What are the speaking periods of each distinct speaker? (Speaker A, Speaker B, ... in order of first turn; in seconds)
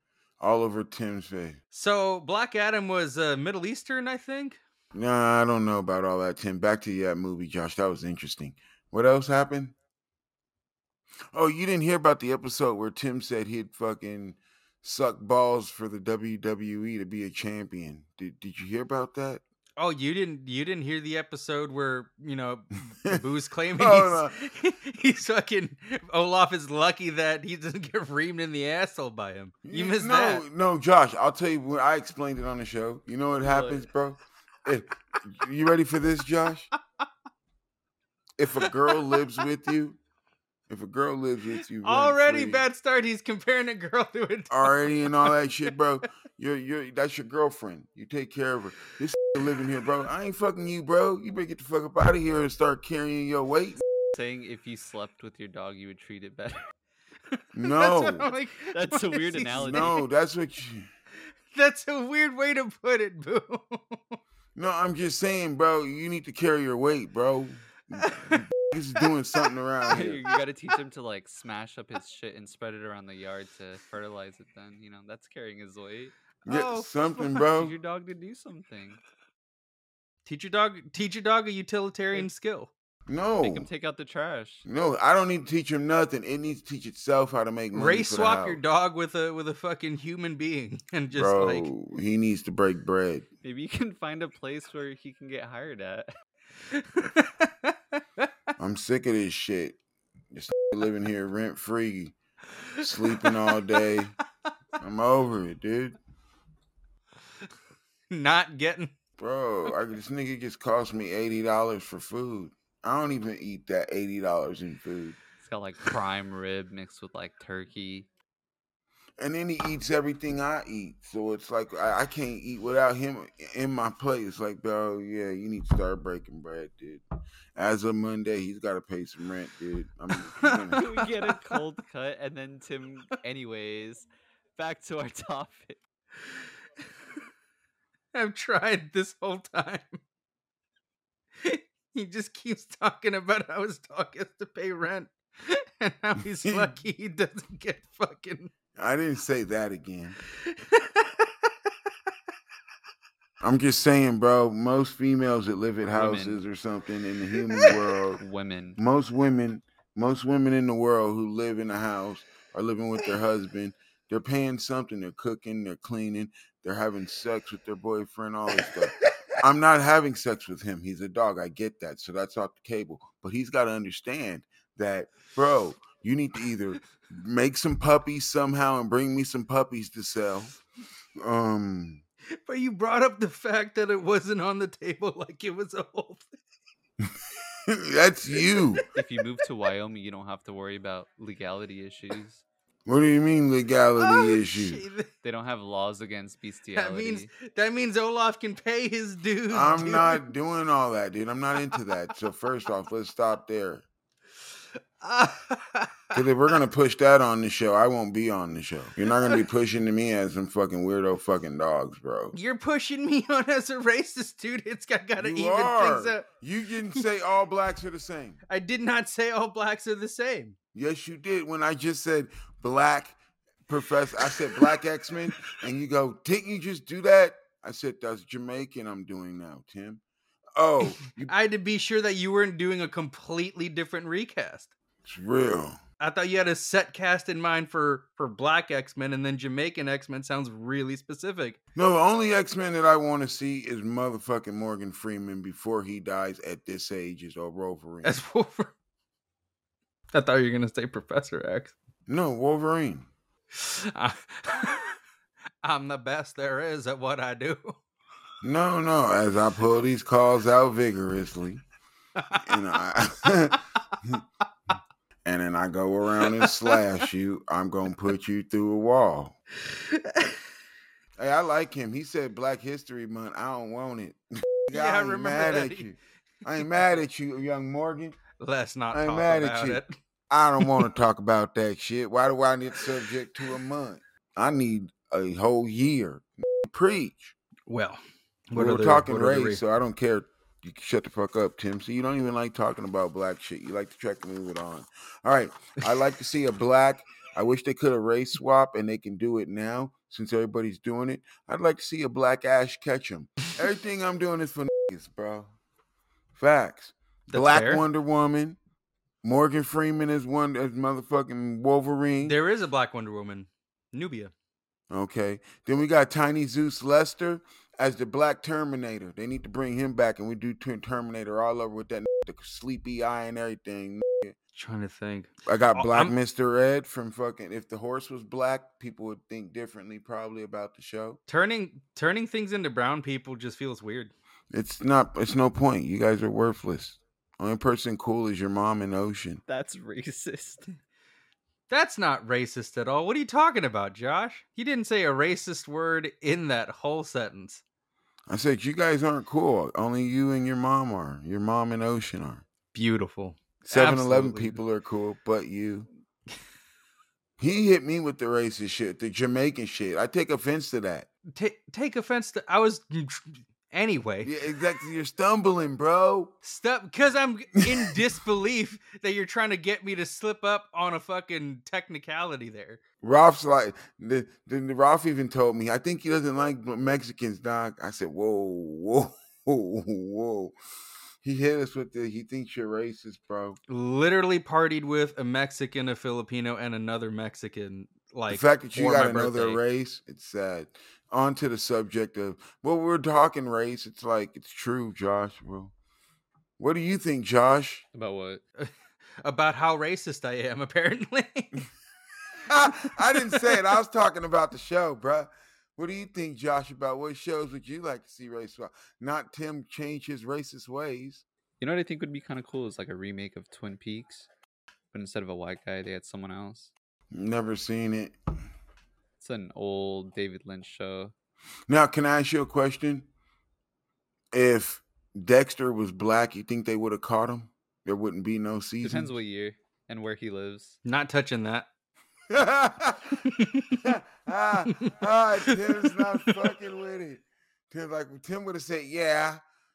Speaker A: 0.4-1.6, 4.9-9.7, 11.3-19.4, 23.8-24.3, 29.6-36.7, 38.4-40.0, 40.7-42.6, 44.5-53.8, 57.5-58.3, 59.6-60.9, 64.5-70.2, 76.5-77.7, 83.1-83.7, 84.7-88.6, 91.1-93.3, 98.6-99.8, 100.3-102.1, 102.8-104.1, 104.8-106.0, 109.2-115.2, 119.2-127.0, 127.5-130.8, 146.4-146.7, 148.7-150.2, 153.4-158.2, 158.8-180.5, 181.2-182.0, 187.7-188.8, 192.8-194.8, 199.5-203.8, 206.1-212.3, 215.2-218.4, 220.7-230.0, 230.6-231.3, 235.0-235.8, 241.7-248.1, 252.1-253.1, 258.4-261.6, 262.3-264.2, 265.2-269.3, 271.2-278.2, 278.9-287.3, 288.5-305.5, 306.3-308.6, 309.2-312.4, 314.9-324.4, 325.5-331.2, 334.5-339.4, 348.3-352.4, 353.7-355.9, 357.4-361.1, 364.2-366.3, 367.6-367.9, 373.0-380.5, 381.2-383.6, 388.3-395.7, 396.6-397.8, 402.4-411.2, 417.1-418.1, 421.7-423.1, 424.3-429.1, 432.3-433.2, 433.8-439.4
Speaker B: 1.7-4.6, 19.8-30.4, 38.6-39.2, 41.8-45.3, 57.6-60.0, 61.5-64.2, 68.0-68.4, 68.9-70.4, 76.4-77.5, 80.2-82.7, 87.7-91.7, 96.7-98.3, 102.8-103.8, 108.1-108.9, 130.3-131.6, 138.1-140.0, 141.4-148.5, 150.4-151.5, 182.4-186.2, 194.0-195.1, 196.7-200.2, 205.0-206.2, 209.0-209.4, 212.3-216.3, 218.5-220.5, 231.2-234.7, 236.0-241.6, 248.0-248.7, 250.1-251.7, 253.6-255.0, 255.6-257.8, 262.1-262.6, 266.2-266.8, 269.6-270.4, 274.7-275.9, 278.4-279.9, 287.7-289.6, 307.3-307.9, 312.2-314.3, 324.5-326.1, 331.3-334.1, 341.7-347.6, 352.7-354.6, 361.3-364.3, 366.4-372.8, 383.7-389.6, 399.2-401.6, 402.6-403.6, 430.8-431.7, 433.2-433.9, 434.7-436.6
Speaker C: 33.4-33.9, 54.1-56.6, 58.7-60.0, 69.9-76.1, 77.5-79.0, 83.4-84.7, 93.4-96.1, 115.4-118.1, 130.7-135.8, 155.9-156.4, 158.2-158.8, 188.9-192.4, 195.2-197.3, 339.5-340.7, 397.9-398.4, 411.6-414.3, 414.9-416.7, 419.2-421.1, 428.8-430.8